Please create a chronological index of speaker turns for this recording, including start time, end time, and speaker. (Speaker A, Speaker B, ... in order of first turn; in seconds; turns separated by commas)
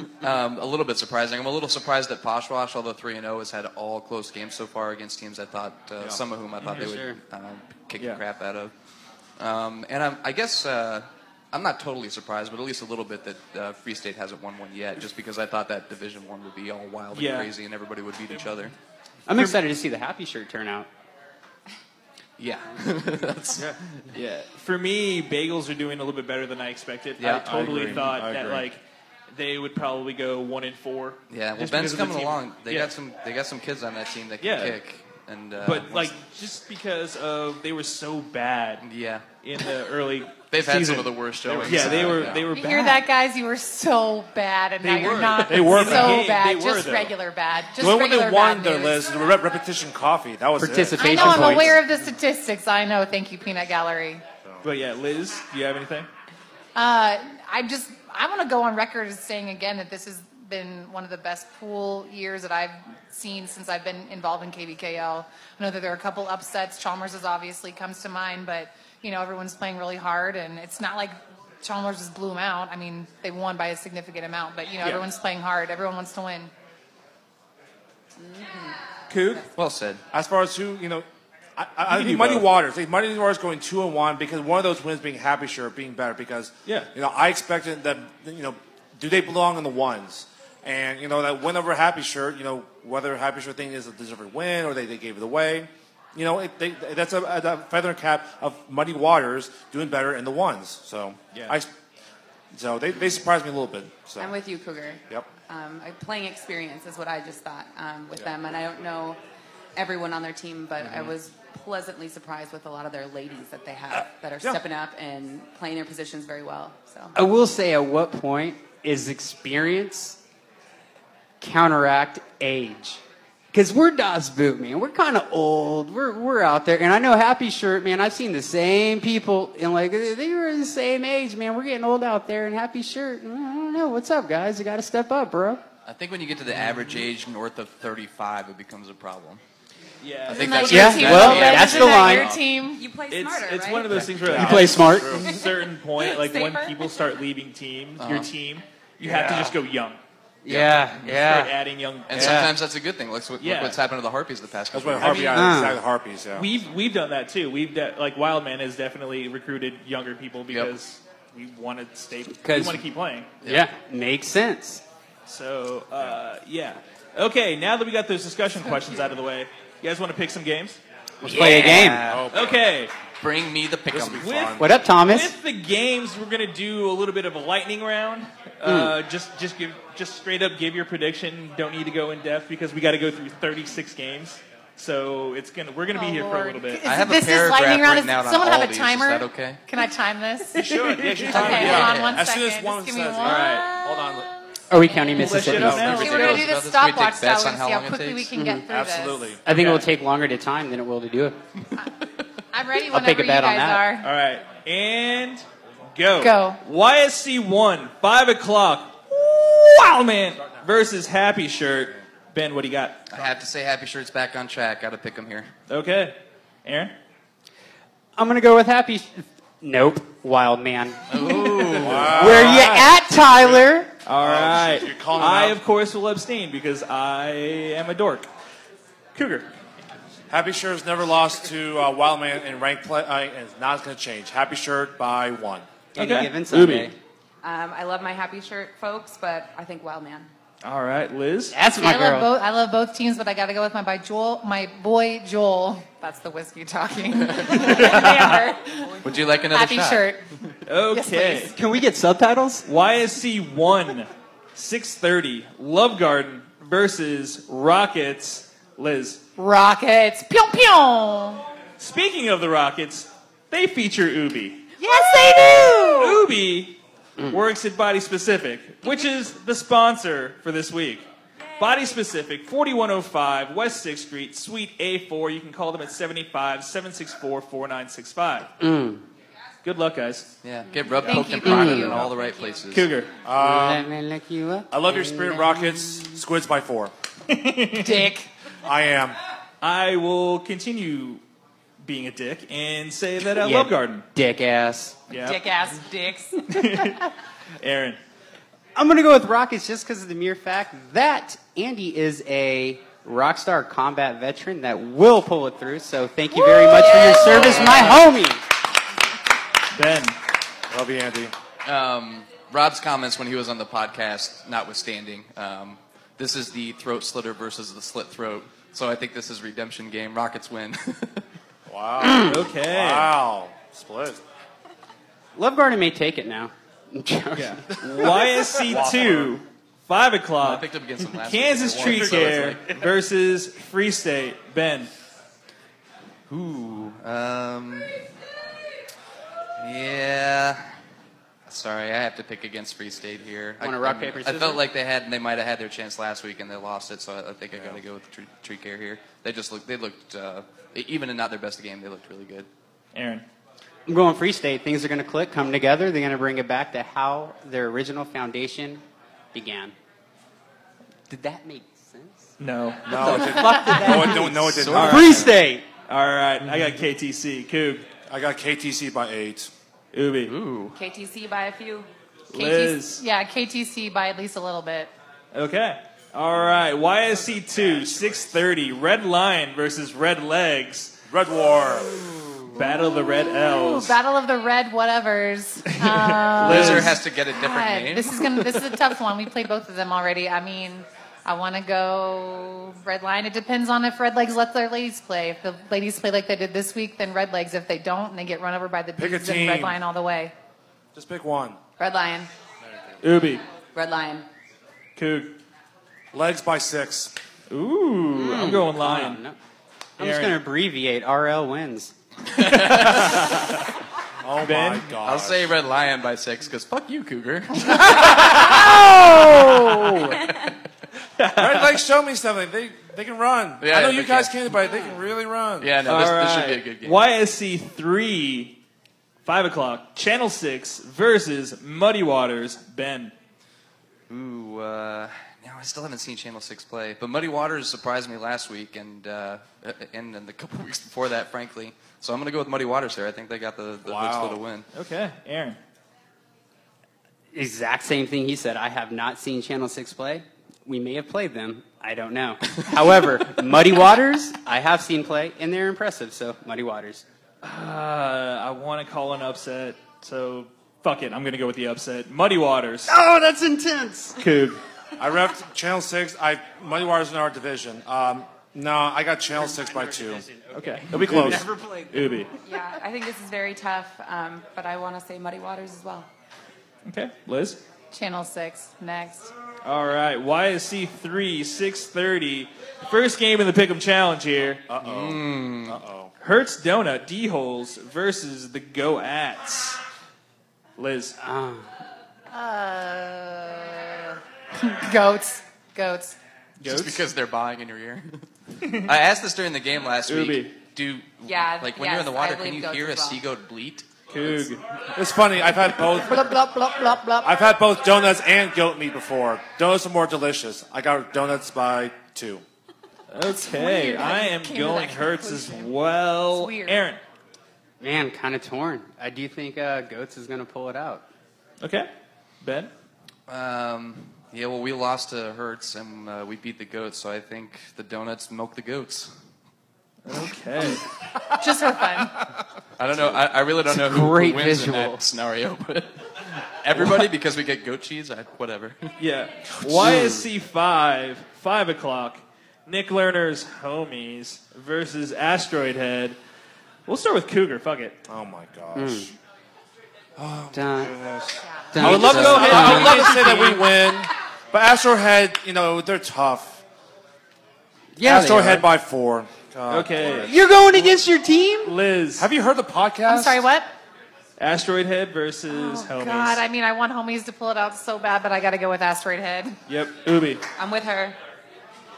Speaker A: 0.2-8.7, Speaker B: 6.6-6.9, Speaker C: 6.7-7.2, Speaker B: 8.0-8.2, Speaker A: 9.4-18.7, Speaker B: 17.1-17.5, Speaker C: 19.3-20.9, Speaker A: 22.4-24.0, Speaker B: 24.1-28.8, Speaker A: 27.2-28.1, Speaker D: 27.4-28.6, Speaker B: 29.3-32.9, Speaker A: 31.3-36.1, Speaker B: 34.4-34.8, Speaker B: 35.6-38.8, Speaker A: 38.8-39.2, Speaker B: 39.4-43.0, Speaker A: 40.5-42.5, Speaker D: 41.4-42.5, Speaker E: 42.5-49.1, Speaker B: 44.8-47.1, Speaker D: 45.3-46.3, Speaker D: 47.8-51.8, Speaker C: 50.6-51.8, Speaker E: 50.9-54.2, Speaker B: 54.6-56.1, Speaker E: 56.7-76.5, Speaker F: 78.2-78.8, Speaker B: 79.1-79.5, Speaker A: 79.5-80.0, Speaker D: 80.1-81.0, Speaker D: 81.6-101.7, Speaker B: 81.9-82.5, Speaker D: 102.5-104.3, Speaker F: 104.2-109.2, Speaker F: 109.8-117.1, Speaker C: 117.1-120.2, Speaker C: 121.4-123.0, Speaker C: 123.5-135.6, Speaker A: 135.8-139.4, Speaker B: 140.0-141.6, Speaker A: 140.3-142.5, Speaker E: 140.3-142.8, Speaker C: 140.7-142.3, Speaker F: 142.7-144.0, Speaker B: 143.1-150.0, Speaker D: 144.1-145.2, Speaker C: 144.2-145.2, Speaker F: 145.2-147.0, Speaker A: 148.0-148.3, Speaker C: 149.0-149.5, Speaker C: 150.4-151.5, Speaker A: 150.5-150.9, Speaker B: 151.0-152.5, Speaker C: 152.1-152.5, Speaker A: 152.1-155.6, Speaker B: 153.4-153.8, Speaker D: 154.7-156.5, Speaker B: 155.0-155.3, Speaker C: 155.3-155.8, Speaker B: 156.3-163.3, Speaker C: 162.4-162.8, Speaker A: 163.4-163.7, Speaker C: 163.4-164.8, Speaker B: 165.2-172.9, Speaker C: 171.2-172.2, Speaker A: 171.2-172.2, Speaker D: 172.0-172.6, Speaker A: 173.2-174.5, Speaker D: 173.9-174.7, Speaker B: 174.2-186.9, Speaker C: 174.6-175.3, Speaker C: 178.6-178.9, Speaker E: 185.9-190.7, Speaker A: 186.8-189.6, Speaker B: 190.5-191.7, Speaker D: 190.6-194.3, Speaker A: 191.2-192.2, Speaker E: 191.3-193.9, Speaker B: 193.2-193.7, Speaker C: 194.7-196.1, Speaker B: 195.1-196.4, Speaker A: 195.2-198.3, Speaker E: 195.7-199.4, Speaker C: 198.4-198.6, Speaker D: 198.7-199.4, Speaker C: 199.4-201.4, Speaker B: 199.4-199.9, Speaker E: 202.5-204.1, Speaker C: 202.9-203.8, Speaker B: 204.0-213.0, Speaker E: 206.2-206.6, Speaker A: 213.1-215.5, Speaker B: 215.7-216.9, Speaker C: 218.2-221.0, Speaker A: 221.1-222.6, Speaker B: 221.2-222.1, Speaker D: 221.8-223.6, Speaker C: 222.1-223.9, Speaker B: 224.1-228.3, Speaker D: 224.2-225.6, Speaker B: 229.1-229.5, Speaker D: 230.3-235.7, Speaker C: 235.9-236.9, Speaker B: 236.0-236.9, Speaker F: 237.4-240.3, Speaker B: 240.6-241.5, Speaker C: 241.5-242.3, Speaker E: 241.8-250.2, Speaker A: 247.3-248.0, Speaker B: 247.6-248.4, Speaker A: 249.0-250.2, Speaker B: 250.7-251.5, Speaker E: 250.9-251.5, Speaker C: 251.1-252.7, Speaker B: 252.6-259.2, Speaker E: 259.4-261.4, Speaker B: 261.8-264.6, Speaker E: 264.8-266.2, Speaker B: 265.5-271.1, Speaker F: 271.5-271.9, Speaker B: 271.6-278.5, Speaker C: 278.6-279.0, Speaker B: 279.6-280.3, Speaker A: 280.4-282.9, Speaker F: 280.7-281.2, Speaker E: 281.0-282.1, Speaker C: 281.4-282.0, Speaker F: 282.2-282.6, Speaker B: 282.7-283.1, Speaker D: 283.2-283.9, Speaker C: 283.4-286.0, Speaker D: 284.7-286.9, Speaker B: 287.3-288.1, Speaker E: 287.7-288.3, Speaker D: 288.6-289.2, Speaker B: 289.6-291.2, Speaker B: 291.8-294.0, Speaker C: 293.4-295.0, Speaker B: 295.1-295.4, Speaker E: 295.1-296.5, Speaker B: 296.5-297.1, Speaker B: 297.6-298.0, Speaker C: 298.7-308.4, Speaker F: 306.6-307.4, Speaker B: 306.9-308.1, Speaker D: 307.3-307.8, Speaker B: 309.7-310.2, Speaker D: 310.7-311.3, Speaker A: 311.6-321.2, Speaker D: 321.7-324.2, Speaker B: 322.2-323.2, Speaker C: 325.4-327.7, Speaker B: 327.3-334.9, Speaker D: 328.0-329.3, Speaker A: 330.4-332.8, Speaker D: 331.7-332.1, Speaker A: 336.3-338.0, Speaker A: 339.6-340.6, Speaker A: 341.4-352.5, Speaker C: 343.6-344.6, Speaker D: 347.5-347.8, Speaker B: 352.9-353.2, Speaker C: 353.9-358.8, Speaker C: 359.3-359.7, Speaker C: 361.1-362.3, Speaker B: 362.4-363.2, Speaker D: 362.9-365.2, Speaker C: 362.9-365.6, Speaker E: 363.4-364.0, Speaker A: 364.4-365.3, Speaker B: 364.7-365.2, Speaker B: 365.9-367.9, Speaker D: 368.1-369.5, Speaker B: 369.9-370.4, Speaker A: 370.2-370.8, Speaker F: 370.7-371.9, Speaker B: 372.3-373.0, Speaker E: 372.3-374.9, Speaker B: 375.3-381.0, Speaker D: 377.2-378.3, Speaker D: 381.1-382.0, Speaker B: 382.5-384.0, Speaker E: 382.5-400.3, Speaker B: 385.7-387.0, Speaker A: 386.4-388.3, Speaker D: 398.9-399.8, Speaker D: 400.9-401.6, Speaker F: 401.8-402.3, Speaker D: 402.7-403.0, Speaker B: 403.0-403.4, Speaker F: 403.7-404.2, Speaker B: 404.9-405.4, Speaker D: 406.1-407.1, Speaker B: 407.5-409.2, Speaker C: 408.1-409.4, Speaker C: 410.0-411.9, Speaker B: 410.0-410.4, Speaker A: 412.2-413.6, Speaker B: 412.8-413.5, Speaker D: 414.2-415.5, Speaker B: 414.4-414.9, Speaker A: 415.0-420.5, Speaker C: 418.4-420.1, Speaker B: 419.4-419.9, Speaker B: 421.2-421.8, Speaker D: 421.3-425.7, Speaker A: 423.6-424.3, Speaker A: 425.6-427.0, Speaker B: 425.8-428.6, Speaker B: 429.2-433.1, Speaker A: 434.1-444.6, Speaker D: 443.8-444.4, Speaker B: 444.7-445.6, Speaker C: 447.3-457.0, Speaker B: 457.4-462.9, Speaker C: 462.9-464.2, Speaker B: 464.2-464.6, Speaker D: 465.0-470.2, Speaker B: 470.5-472.3, Speaker D: 470.9-471.5, Speaker C: 471.2-471.9, Speaker F: 472.4-476.1, Speaker B: 476.9-477.6, Speaker E: 477.9-479.3, Speaker B: 479.6-484.6, Speaker D: 484.7-486.1, Speaker A: 484.8-485.8, Speaker B: 486.2-489.8, Speaker B: 490.8-491.1, Speaker C: 491.2-491.6, Speaker E: 492.3-496.2, Speaker B: 496.6-497.1, Speaker A: 496.6-504.5, Speaker B: 498.6-499.0, Speaker B: 500.1-500.5, Speaker F: 501.2-503.2, Speaker B: 504.1-504.6, Speaker D: 504.9-506.4, Speaker E: 506.1-507.3, Speaker D: 507.2-512.4, Speaker B: 513.1-517.0, Speaker E: 513.3-515.7, Speaker E: 516.3-516.8, Speaker C: 517.8-521.0, Speaker B: 521.6-521.9, Speaker B: 522.4-522.7, Speaker A: 523.3-529.1, Speaker B: 530.0-530.8, Speaker E: 531.3-532.2, Speaker A: 532.8-538.9, Speaker C: 533.7-535.0, Speaker B: 539.0-546.2, Speaker D: 539.7-540.0, Speaker C: 539.8-540.2, Speaker B: 546.9-548.0, Speaker D: 548.1-549.1, Speaker C: 548.7-549.1, Speaker D: 550.1-556.6, Speaker C: 550.5-550.9, Speaker E: 551.5-551.9, Speaker C: 551.7-553.1, Speaker B: 551.8-553.6, Speaker E: 552.9-553.5, Speaker C: 558.0-558.7, Speaker D: 558.0-560.4, Speaker B: 559.7-560.3, Speaker C: 560.2-561.7, Speaker B: 561.6-562.3, Speaker D: 562.2-563.5, Speaker E: 563.0-563.7, Speaker B: 564.4-566.4, Speaker E: 565.5-569.6, Speaker B: 569.7-570.4, Speaker F: 570.6-571.2